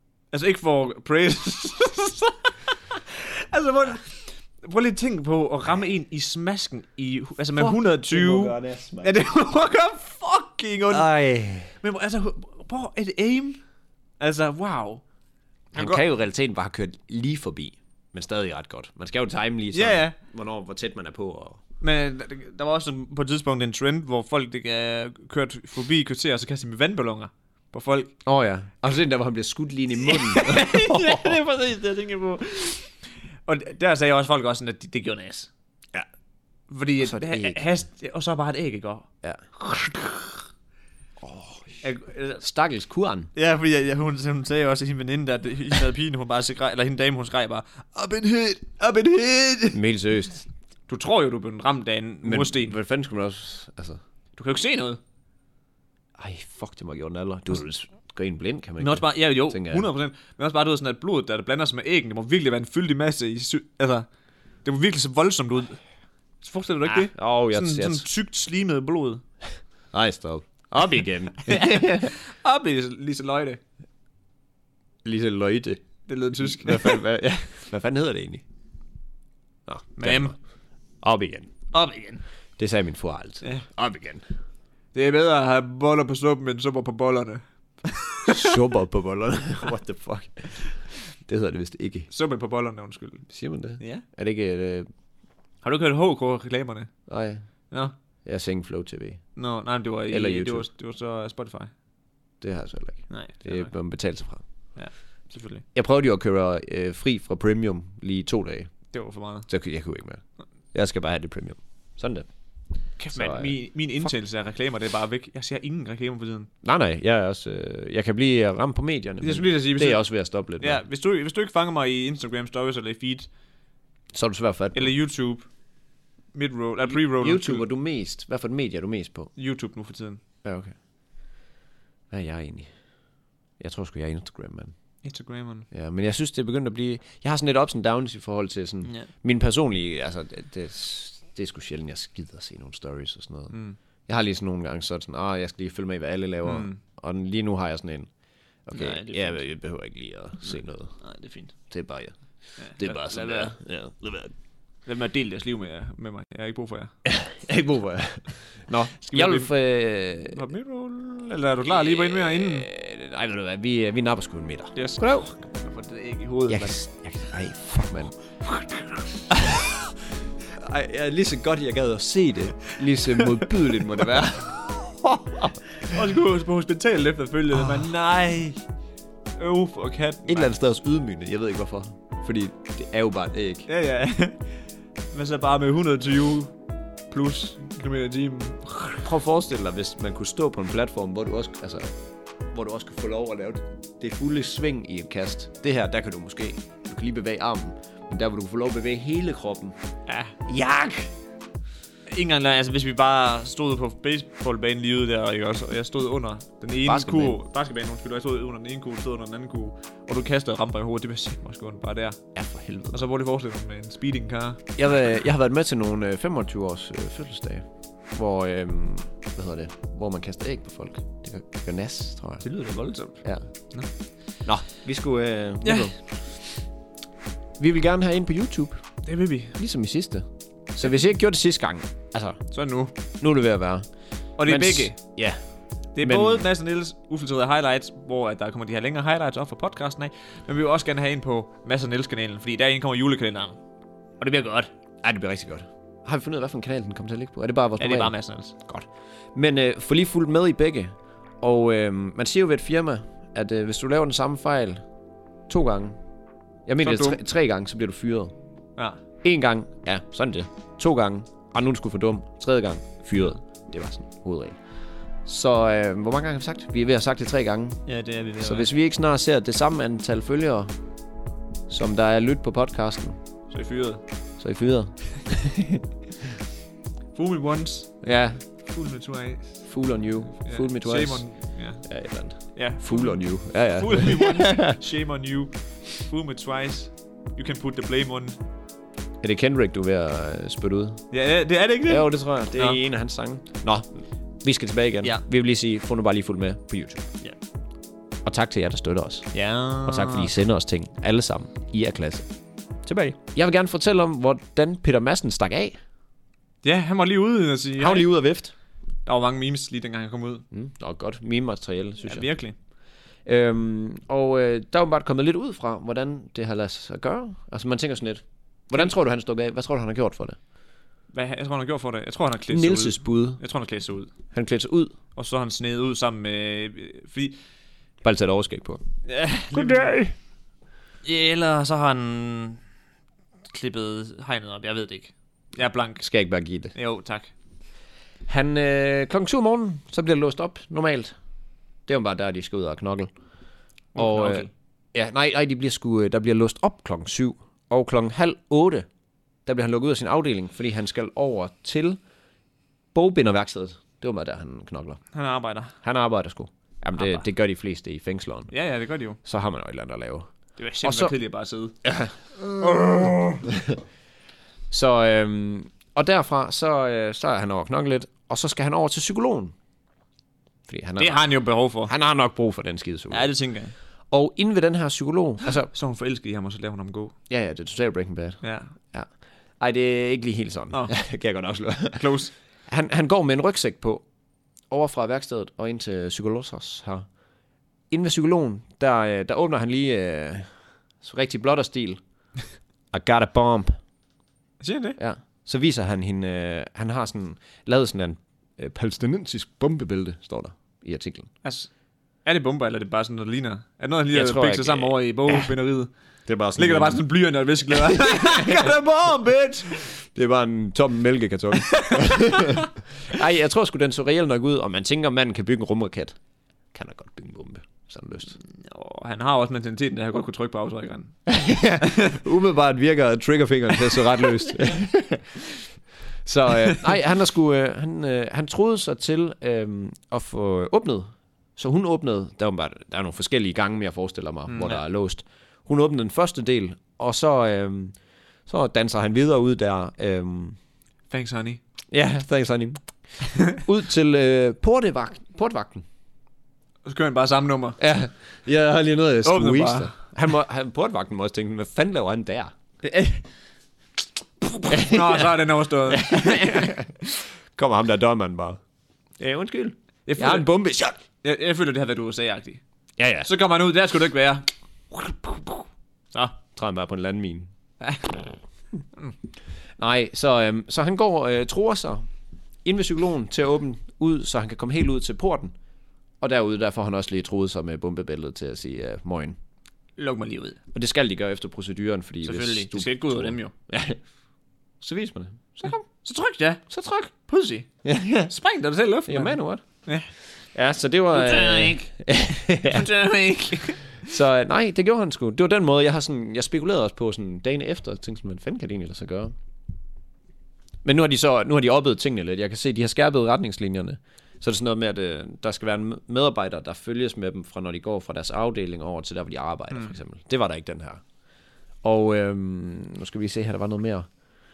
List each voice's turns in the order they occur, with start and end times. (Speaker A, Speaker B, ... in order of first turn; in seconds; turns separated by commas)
Speaker A: 0.3-11.1, Speaker B: 7.6-9.2, Speaker B: 10.9-11.7, Speaker A: 11.8-13.6, Speaker A: 14.2-15.0, Speaker A: 15.8-16.0, Speaker B: 15.8-21.6, Speaker A: 19.7-20.1, Speaker A: 21.8-28.1, Speaker B: 28.2-31.4, Speaker A: 30.0-35.5, Speaker A: 36.7-39.1, Speaker B: 37.0-37.6, Speaker B: 39.2-39.5, Speaker A: 39.7-40.3, Speaker B: 41.2-41.8, Speaker A: 41.8-42.4, Speaker B: 42.4-43.3, Speaker A: 43.4-49.8, Speaker B: 49.7-50.5, Speaker A: 50.9-52.8, Speaker B: 52.2-54.0, Speaker A: 54.4-55.0, Speaker B: 56.2-59.9, Speaker A: 58.8-64.1, Speaker A: 64.7-65.8, Speaker A: 66.4-69.2, Speaker B: 66.9-68.1, Speaker B: 69.9-72.1, Speaker A: 71.4-73.6, Speaker B: 75.0-75.8, Speaker A: 76.1-77.1, Speaker B: 76.4-78.4, Speaker B: 79.7-80.4, Speaker A: 80.0-80.3, Speaker B: 81.0-81.5, Speaker A: 81.7-82.2, Speaker B: 82.6-84.2, Speaker A: 84.9-88.6, Speaker B: 88.3-92.1, Speaker A: 92.1-93.2, Speaker B: 93.3-94.9, Speaker A: 93.8-94.0, Speaker A: 95.6-96.9, Speaker B: 97.1-97.4, Speaker B: 98.2-99.2, Speaker A: 99.4-101.7, Speaker B: 100.1-100.7, Speaker B: 102.4-104.4, Speaker A: 103.1-103.7, Speaker A: 104.8-105.7, Speaker B: 105.7-108.7, Speaker A: 108.9-109.5, Speaker B: 109.5-110.2, Speaker B: 110.7-112.3, Speaker A: 113.0-116.5, Speaker B: 113.1-113.5, Speaker B: 116.6-120.8, Speaker A: 119.2-120.0, Speaker A: 120.6-123.3, Speaker B: 124.1-124.9, Speaker A: 124.7-125.5, Speaker A: 126.3-127.7, Speaker B: 127.1-129.3, Speaker A: 129.4-130.2, Speaker B: 130.4-130.8, Speaker B: 132.1-132.7, Speaker B: 133.6-134.7, Speaker A: 135.0-135.7, Speaker B: 135.7-148.1, Speaker A: 143.5-143.8, Speaker A: 146.4-146.8, Speaker B: 148.7-151.0, Speaker A: 148.7-149.4, Speaker A: 150.5-151.5, Speaker B: 151.7-154.3, Speaker A: 152.6-153.6, Speaker A: 154.9-156.9, Speaker B: 157.1-160.4, Speaker A: 159.0-159.5, Speaker A: 160.3-162.7, Speaker B: 161.7-165.3, Speaker A: 164.7-166.7, Speaker B: 166.5-168.2, Speaker A: 168.4-168.9, Speaker B: 169.3-169.8, Speaker B: 170.6-175.9, Speaker A: 173.2-173.4, Speaker A: 175.8-178.6, Speaker A: 179.4-180.5, Speaker B: 180.3-183.7, Speaker A: 183.7-184.5, Speaker A: 185.1-186.5, Speaker A: 187.1-189.1, Speaker B: 189.0-191.9, Speaker B: 192.5-199.8, Speaker A: 200.1-200.5, Speaker B: 200.5-201.1, Speaker A: 202.1-212.2, Speaker B: 206.8-207.4, Speaker B: 212.3-213.1, Speaker A: 212.9-214.6, Speaker B: 214.8-222.5, Speaker A: 222.4-223.9, Speaker B: 223.2-223.5, Speaker B: 224.4-226.6, Speaker A: 225.6-225.9, Speaker B: 227.6-228.9, Speaker A: 229.0-229.6, Speaker B: 229.6-232.4, Speaker A: 232.5-232.9, Speaker B: 233.2-233.9, Speaker A: 234.4-235.0, Speaker B: 234.4-235.4, Speaker A: 235.9-243.6, Speaker B: 236.0-236.4, Speaker A: 244.2-244.7, Speaker B: 245.0-254.8, Speaker A: 247.8-248.6, Speaker B: 255.5-256.0, Speaker B: 256.7-258.3, Speaker A: 256.8-257.2, Speaker B: 259.2-264.6, Speaker B: 265.2-267.8, Speaker A: 267.9-268.7, Speaker B: 268.4-270.7, Speaker B: 271.7-273.2, Speaker A: 273.5-274.0, Speaker B: 274.4-275.9, Speaker A: 277.1-278.0, Speaker B: 278.0-278.4, Speaker A: 278.6-279.6, Speaker B: 279.6-281.3, Speaker A: 280.4-281.9, Speaker B: 281.8-284.8, Speaker A: 282.5-288.4, Speaker B: 289.2-291.0, Speaker A: 291.1-292.8, Speaker B: 291.9-297.1, Speaker B: 298.3-299.3, Speaker A: 299.3-300.3, Speaker B: 299.8-302.3, Speaker B: 302.9-305.8, Speaker A: 306.6-308.1, Speaker B: 307.8-308.5, Speaker A: 309.1-310.4, Speaker B: 310.5-312.3, Speaker A: 312.0-312.6, Speaker B: 313.2-320.4, Speaker A: 321.1-324.1, Speaker B: 322.5-323.4, Speaker B: 324.3-324.9, Speaker A: 325.1-327.4, Speaker B: 328.0-328.8, Speaker A: 329.1-329.9, Speaker B: 329.5-330.1, Speaker A: 331.0-332.6, Speaker A: 333.5-336.1, Speaker B: 336.0-336.8, Speaker A: 336.8-337.3, Speaker B: 338.3-341.1, Speaker B: 341.9-343.1, Speaker A: 343.9-344.5, Speaker B: 344.0-348.9, Speaker B: 349.5-352.0, Speaker B: 352.9-355.0, Speaker A: 355.1-355.8, Speaker B: 355.8-358.5, Speaker A: 357.0-357.2, Speaker A: 358.5-359.2, Speaker B: 359.2-360.3, Speaker A: 360.6-361.8, Speaker B: 360.8-361.1, Speaker B: 361.8-363.8, Speaker A: 362.8-363.1, Speaker B: 364.7-369.5, Speaker B: 370.7-371.2, Speaker A: 371.0-371.9, Speaker B: 371.9-373.3, Speaker A: 373.1-373.7, Speaker B: 374.1-375.7, Speaker A: 375.7-377.1, Speaker B: 377.3-378.4, Speaker A: 378.4-378.7, Speaker B: 379.6-384.0, Speaker A: 382.0-382.3, Speaker B: 384.7-387.1, Speaker B: 387.9-392.0, Speaker B: 392.9-393.8, Speaker A: 394.6-395.0, Speaker B: 395.0-401.3, Speaker A: 401.4-401.7, Speaker A: 402.2-405.9, Speaker B: 404.1-405.4, Speaker B: 406.3-407.0, Speaker A: 406.6-409.8, Speaker B: 407.9-408.7, Speaker B: 409.8-416.2, Speaker A: 411.6-412.7, Speaker B: 416.7-418.4, Speaker A: 418.4-421.2, Speaker B: 421.3-425.6, Speaker A: 421.8-422.2, Speaker B: 426.2-438.0, Speaker A: 434.5-434.8, Speaker B: 438.5-440.6, Speaker A: 441.1-441.6, Speaker B: 441.9-442.8, Speaker B: 443.4-445.9, Speaker A: 446.8-447.8, Speaker B: 447.8-452.5, Speaker A: 449.2-449.9, Speaker A: 452.8-453.2, Speaker A: 454.5-456.8, Speaker B: 454.7-458.6, Speaker B: 459.2-461.0, Speaker A: 460.1-460.5, Speaker A: 461.2-462.6, Speaker B: 463.0-463.3, Speaker A: 463.2-465.5, Speaker A: 466.1-466.4, Speaker B: 466.6-467.5, Speaker A: 467.8-468.3, Speaker B: 469.8-472.1, Speaker B: 472.6-475.5, Speaker B: 476.2-479.4, Speaker A: 480.0-480.6, Speaker B: 480.7-484.0, Speaker A: 482.2-483.5, Speaker B: 484.8-485.9, Speaker A: 485.7-487.7, Speaker B: 486.7-487.1, Speaker B: 487.8-488.3, Speaker A: 488.3-490.1, Speaker B: 489.1-489.6, Speaker B: 490.2-492.9, Speaker A: 491.1-491.9, Speaker A: 492.6-493.8, Speaker B: 494.0-499.3, Speaker B: 500.8-511.0, Speaker B: 511.8-514.1